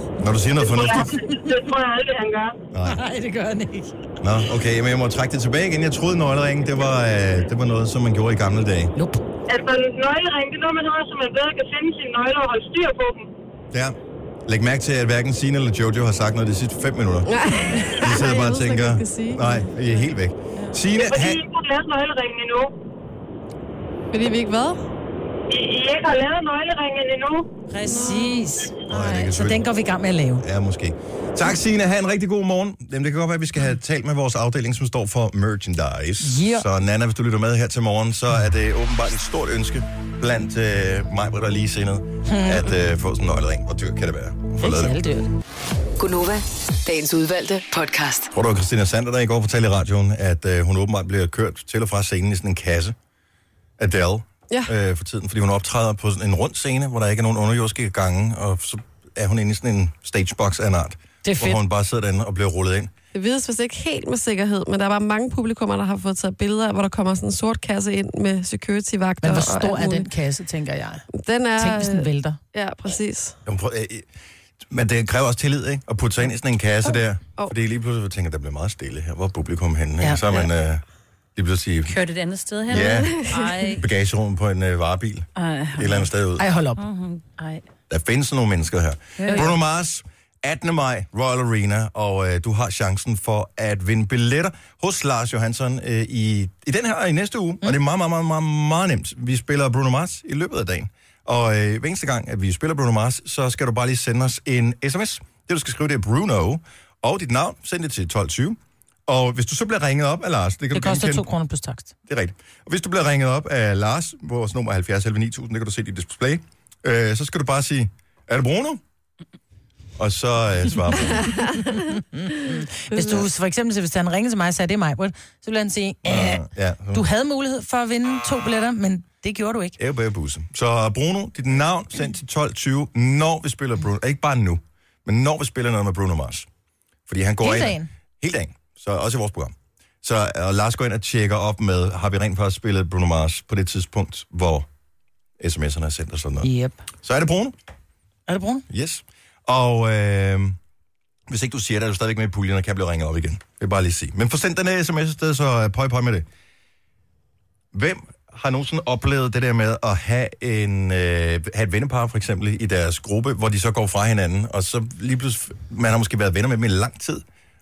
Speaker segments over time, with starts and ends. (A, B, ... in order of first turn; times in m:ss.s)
0:00.2-0:01.2 A
0:00.6-0:02.6 B
0:02.7-0:03.0 A
0:02.8-0:03.9 C
0:04.2-0:08.9 A
0:09.0-0:09.2 C
0:09.5-0:13.3 B
0:13.7-0:21.4 A
0:17.3-0:19.7 D
0:20.9-0:22.7 B
0:24.1-0:24.8 D
0:25.5-0:27.5 B
0:27.7-0:30.4 C
0:27.8-0:28.5 D
0:28.9-0:29.7 A
0:30.4-0:45.0 A
0:36.2-0:36.6 C
0:42.3-0:42.7 C
0:44.6-0:45.3 C
0:46.0-0:48.3 E
0:48.3-0:53.0 A
0:53.8-1:02.9 A
1:01.2-1:01.6 C
1:03.1-1:10.0 D
1:09.2-1:11.1 C
1:11.1-1:13.4 D
1:11.6-1:12.4 C
1:13.4-1:14.0 A
1:14.6-1:20.8 A
1:20.0-1:20.4 C
1:21.4-1:22.0 A
1:21.9-1:23.8 F
1:22.7-1:26.4 A
1:22.7-1:23.4 D
1:25.4-1:26.1 F
1:26.4-1:26.8 C
1:26.8-1:27.6 F
1:27.9-1:51.3 A
1:29.2-1:29.5 F
1:29.3-1:29.5 C
1:50.7-1:51.9 C
1:52.1-1:58.8 A
2:00.0-2:01.4 A
2:01.2-2:01.6 D
2:01.7-2:09.8 C
2:06.0-2:07.0 A
2:09.8-2:16.4 A
2:17.1-2:24.7 A
2:17.4-2:17.9 C
2:25.4-2:27.5 A
2:26.4-2:26.8 C
2:28.3-2:28.6 C
2:28.7-2:30.6 A
2:31.3-2:36.2 A
2:37.7-2:47.2 A